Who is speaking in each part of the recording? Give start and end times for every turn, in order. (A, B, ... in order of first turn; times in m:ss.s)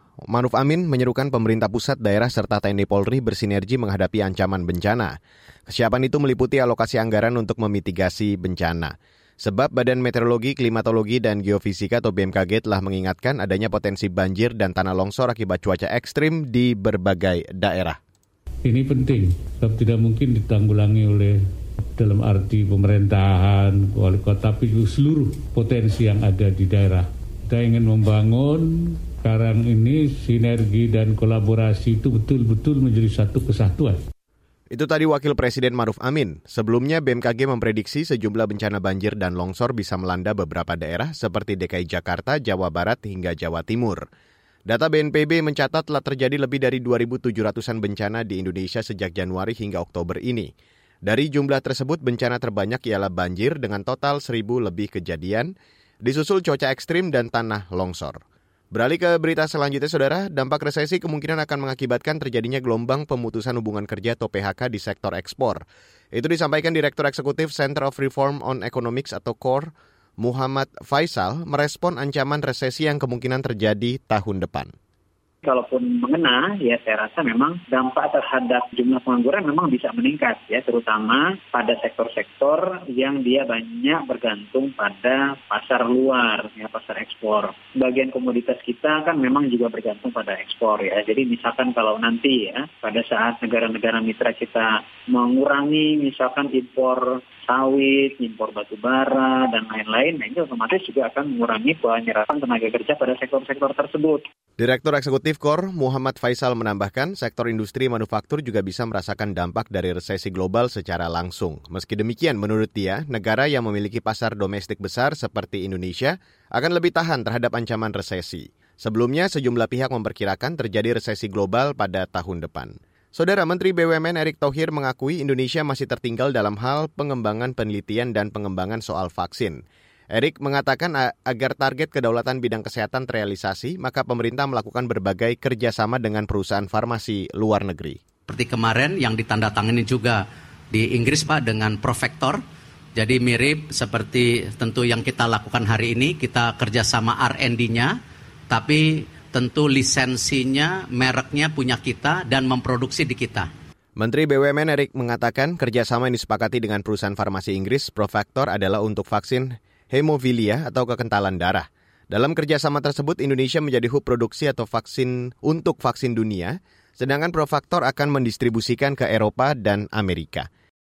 0:00.3-0:05.2 A
0:05.7-0:18.0 A
0:18.6-0:34.0 B
0:34.7-0:44.0 A
0:44.7-0:50.5 A
0:51.1-0:55.5 A
0:56.0-0:58.2 A
0:58.7-1:05.6 A
1:06.2-1:14.7 A
1:15.4-1:44.2 C
1:44.6-2:09.6 A
2:10.1-2:18.0 A
2:18.3-2:22.4 D
2:23.0-2:28.0 D
2:28.5-2:33.5 D
2:34.0-2:50.5 A